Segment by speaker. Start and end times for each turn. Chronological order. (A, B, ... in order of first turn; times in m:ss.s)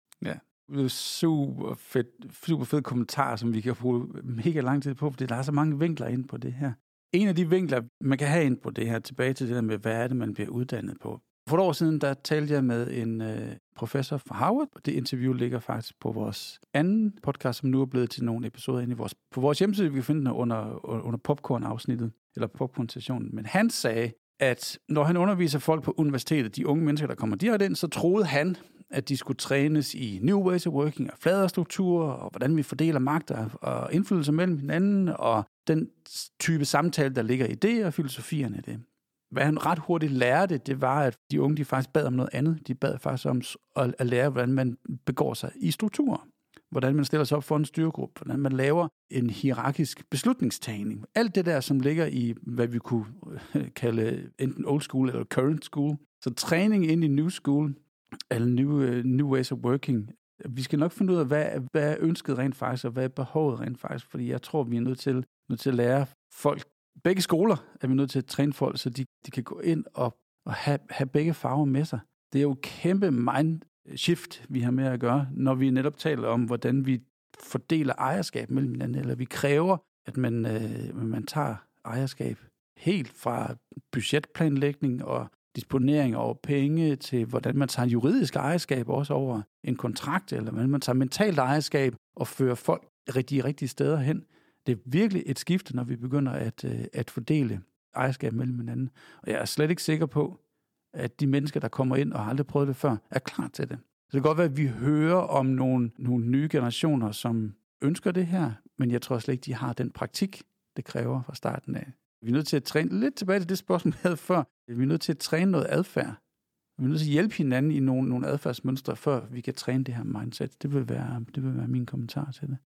0:00.2-0:57.8 A
0:58.3-1:40.4 A
1:40.9-1:56.2 A
1:56.8-2:02.6 A